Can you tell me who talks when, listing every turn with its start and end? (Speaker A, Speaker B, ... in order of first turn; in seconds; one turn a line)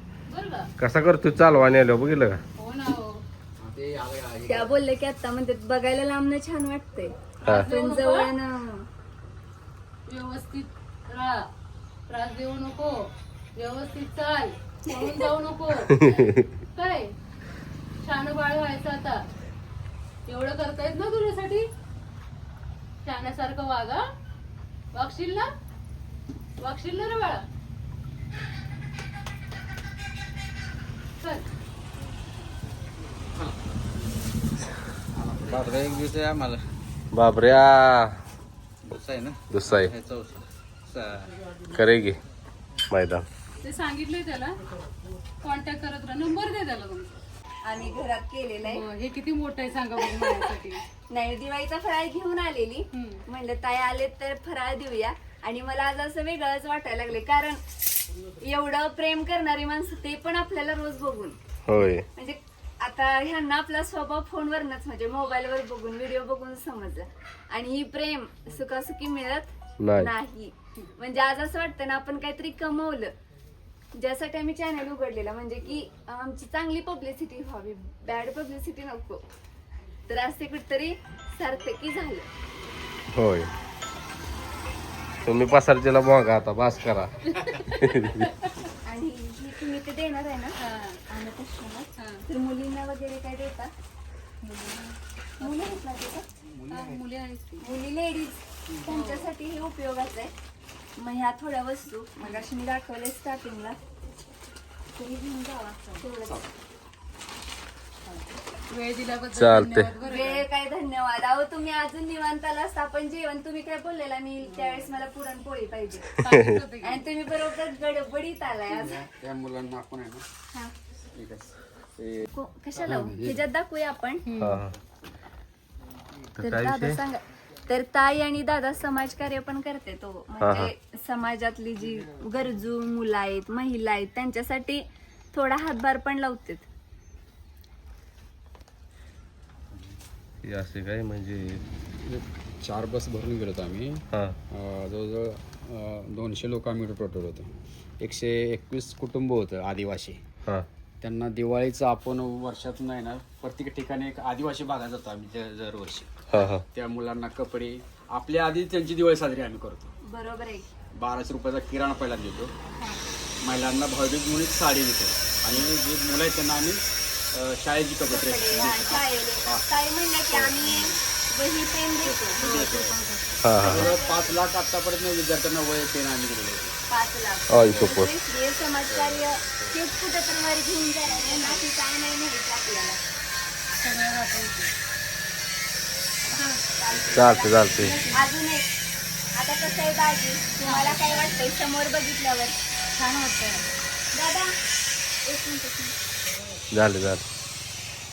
Speaker A: 0.3-0.7
Speaker B: 0.8-2.4
Speaker A: 2.6-3.2
Speaker C: 3.6-4.7
Speaker D: 4.5-8.9
Speaker A: 7.4-8.3
Speaker A: 10.1-11.5
Speaker A: 12.1-17.1
Speaker D: 14.9-15.3
Speaker B: 16.0-16.4
Speaker A: 18.0-19.2
Speaker A: 20.3-21.6
Speaker A: 23.0-24.0
Speaker A: 24.9-25.5
Speaker A: 26.6-27.4
Speaker A: 31.2-31.4
Speaker C: 35.1-36.0
Speaker E: 35.4-36.6
Speaker B: 37.1-38.2
Speaker E: 38.9-40.4
Speaker B: 39.5-39.9
Speaker C: 40.9-41.3
Speaker B: 41.7-42.2
Speaker B: 42.9-43.2
Speaker A: 43.6-44.6
Speaker A: 45.4-47.1
Speaker D: 47.6-48.8
Speaker A: 48.6-50.8
Speaker D: 50.0-50.5
Speaker D: 51.1-57.6
Speaker A: 52.9-53.2
Speaker D: 58.4-61.4
Speaker B: 61.6-62.0
Speaker D: 62.0-73.1
Speaker B: 69.8-70.1
Speaker D: 74.0-79.2
Speaker D: 80.1-82.3
Speaker B: 83.1-83.5
Speaker B: 85.2-88.3
Speaker A: 87.3-88.5
Speaker D: 88.8-90.5
Speaker A: 90.6-91.0
Speaker D: 91.1-93.7
Speaker A: 92.0-92.2
Speaker A: 94.4-95.8
Speaker D: 95.4-96.2
Speaker C: 96.4-97.0
Speaker A: 96.7-97.6
Speaker D: 97.6-100.3
Speaker A: 98.9-99.3
Speaker D: 101.0-103.8
Speaker D: 104.9-106.5
Speaker A: 108.0-110.4
Speaker B: 109.3-109.9
Speaker D: 110.0-116.1
Speaker A: 114.4-114.9
Speaker A: 116.2-117.0
Speaker B: 116.2-116.6
Speaker D: 116.8-119.0
Speaker C: 118.7-120.2
Speaker C: 121.1-123.4
Speaker D: 122.3-124.2
Speaker A: 124.2-124.6
Speaker B: 124.4-124.7
Speaker B: 126.4-127.0
Speaker D: 126.4-134.8
Speaker B: 130.4-130.7
Speaker D: 135.3-136.7
Speaker B: 140.4-141.6
Speaker C: 142.0-147.5
Speaker B: 144.1-144.4
Speaker C: 148.0-150.2
Speaker C: 151.0-156.1
Speaker B: 156.3-156.6
Speaker C: 156.7-159.9
Speaker D: 160.0-160.7
Speaker C: 160.9-162.5
Speaker C: 163.4-169.7
Speaker D: 168.1-174.4
Speaker C: 170.3-170.7
Speaker A: 170.6-170.9
Speaker C: 172.0-173.0
Speaker A: 172.4-172.7
Speaker B: 173.4-173.9
Speaker C: 173.6-176.8
Speaker D: 176.9-183.0
Speaker B: 177.5-178.1
Speaker C: 178.9-179.7
Speaker A: 181.3-181.6
Speaker A: 183.8-184.7
Speaker A: 186.3-186.6
Speaker D: 186.8-188.7
Speaker B: 187.1-188.0
Speaker A: 187.6-188.3
Speaker D: 189.3-192.6
Speaker A: 190.6-191.3
Speaker A: 192.9-193.7
Speaker D: 194.1-194.6
Speaker D: 195.2-195.9
Speaker B: 196.7-197.2